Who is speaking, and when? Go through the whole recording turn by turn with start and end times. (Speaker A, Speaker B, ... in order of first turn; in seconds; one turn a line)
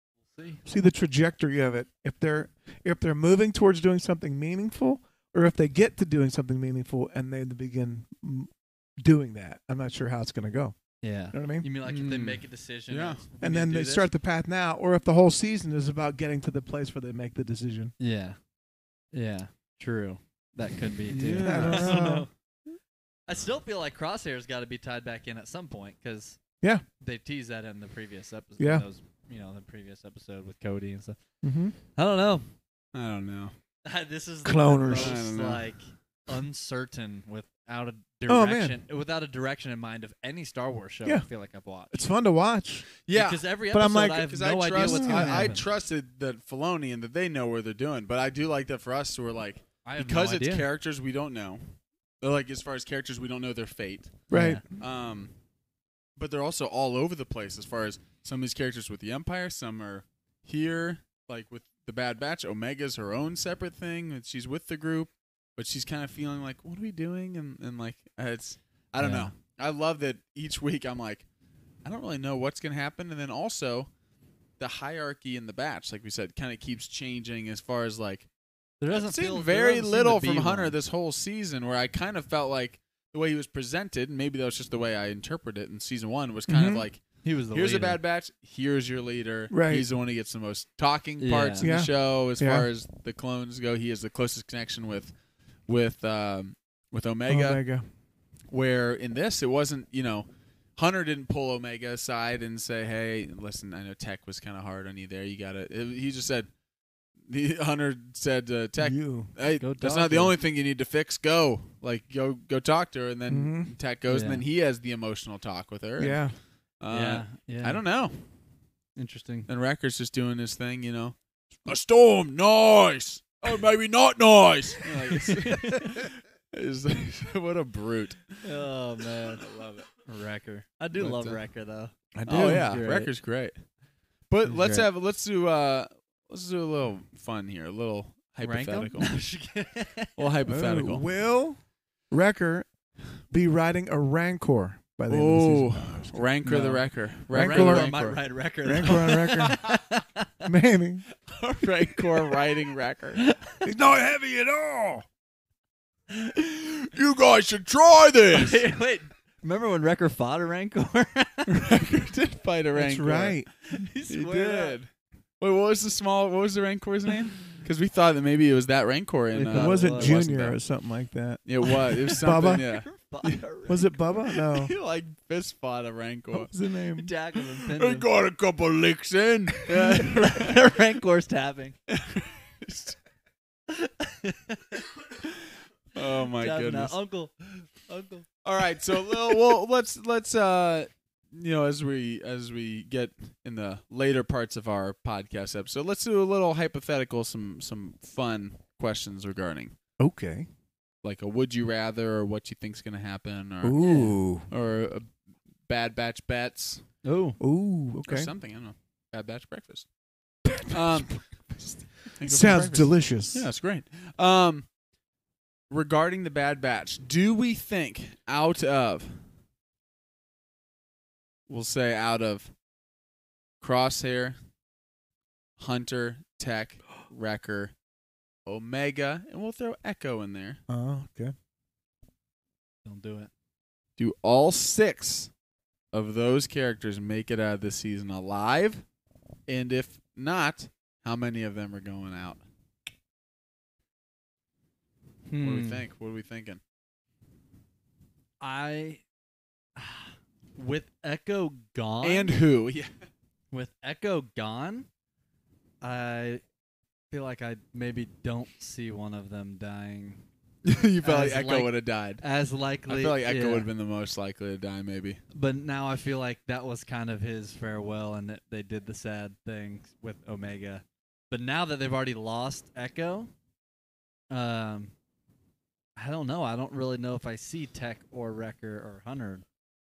Speaker A: 0.3-0.6
Speaker B: 0.7-8.5
Speaker B: 9.0-10.8
Speaker A: 11.0-14.1
Speaker B: 11.3-11.7
Speaker C: 11.8-13.2
Speaker B: 13.4-17.9
Speaker A: 18.0-18.4
Speaker A: 19.1-22.3
Speaker C: 21.1-21.9
Speaker B: 21.4-22.3
Speaker A: 23.3-26.4
Speaker A: 27.0-31.2
Speaker B: 28.6-28.8
Speaker B: 31.4-31.7
Speaker A: 31.9-32.5
Speaker C: 32.9-33.5
Speaker A: 33.8-42.0
Speaker B: 34.4-35.2
Speaker C: 34.9-35.6
Speaker B: 38.3-38.8
Speaker B: 41.9-42.9
Speaker C: 43.0-43.4
Speaker A: 43.1-45.6
Speaker B: 43.7-45.5
Speaker C: 44.1-55.3
Speaker A: 49.8-50.6
Speaker B: 54.3-54.6
Speaker A: 54.3-54.6
Speaker C: 56.2-71.2
Speaker A: 69.0-69.3
Speaker C: 71.8-73.9
Speaker C: 74.6-78.3
Speaker A: 78.8-80.7
Speaker C: 78.9-95.1
Speaker B: 86.5-86.9
Speaker A: 87.2-88.0
Speaker B: 89.5-89.8
Speaker A: 91.2-91.7
Speaker B: 91.6-92.7
Speaker C: 95.7-97.6
Speaker B: 97.3-97.8
Speaker C: 98.5-106.5
Speaker C: 107.3-116.3
Speaker B: 108.8-109.3
Speaker A: 109.6-110.3
Speaker B: 113.3-113.7
Speaker A: 114.1-114.4
Speaker B: 116.0-116.3
Speaker C: 116.8-118.2
Speaker A: 116.9-117.8
Speaker A: 119.0-119.5
Speaker C: 119.5-128.4
Speaker A: 125.0-126.1
Speaker A: 128.4-129.4
Speaker C: 129.3-129.9
Speaker A: 129.9-133.1
Speaker C: 130.9-131.4
Speaker B: 132.1-132.8
Speaker C: 132.3-133.5
Speaker C: 134.3-139.2
Speaker A: 134.4-134.8
Speaker A: 138.4-140.2
Speaker C: 140.2-141.0
Speaker B: 140.5-141.6
Speaker B: 142.1-142.7
Speaker B: 143.3-146.7
Speaker C: 145.1-148.2
Speaker A: 146.4-146.8
Speaker B: 147.3-147.9
Speaker A: 147.3-150.3
Speaker B: 148.6-149.6
Speaker B: 150.4-151.0
Speaker C: 151.3-153.2
Speaker A: 151.6-152.4
Speaker A: 153.2-153.7
Speaker B: 153.6-155.0
Speaker C: 156.3-158.6
Speaker A: 158.3-161.6
Speaker C: 161.5-163.4
Speaker B: 162.7-163.5
Speaker A: 163.7-164.8
Speaker C: 164.1-170.6
Speaker A: 169.3-170.1
Speaker B: 169.5-171.4
Speaker C: 171.4-173.4
Speaker B: 172.1-172.7
Speaker A: 172.5-173.8
Speaker B: 173.7-174.7
Speaker C: 174.3-176.5
Speaker B: 176.3-177.1
Speaker A: 177.0-178.1
Speaker C: 177.5-180.6
Speaker A: 179.7-181.8
Speaker C: 181.9-183.0
Speaker A: 183.7-184.8
Speaker C: 185.9-186.9
Speaker A: 186.4-188.3
Speaker C: 188.4-199.7
Speaker B: 200.0-200.5
Speaker C: 201.0-205.1
Speaker B: 203.6-204.5
Speaker A: 203.8-204.1
Speaker C: 205.7-206.8
Speaker A: 207.0-207.4
Speaker B: 207.4-208.3
Speaker C: 208.1-209.9
Speaker B: 210.4-213.5
Speaker C: 210.7-211.2
Speaker C: 212.1-214.7
Speaker C: 215.7-219.2
Speaker C: 221.5-222.5
Speaker C: 223.6-224.3
Speaker C: 225.6-227.7
Speaker C: 228.4-230.6
Speaker B: 230.7-231.3
Speaker A: 232.8-233.3
Speaker C: 234.0-235.3
Speaker C: 235.9-238.8
Speaker C: 239.5-242.4
Speaker A: 245.3-245.8
Speaker C: 245.4-246.6
Speaker A: 248.4-249.0
Speaker A: 249.8-252.3
Speaker C: 252.0-252.9
Speaker A: 253.5-254.9
Speaker A: 255.8-256.4
Speaker A: 257.1-260.2
Speaker C: 260.6-262.2
Speaker A: 261.0-263.7
Speaker C: 262.9-265.2
Speaker A: 265.3-273.3
Speaker A: 274.3-274.9
Speaker A: 276.0-279.4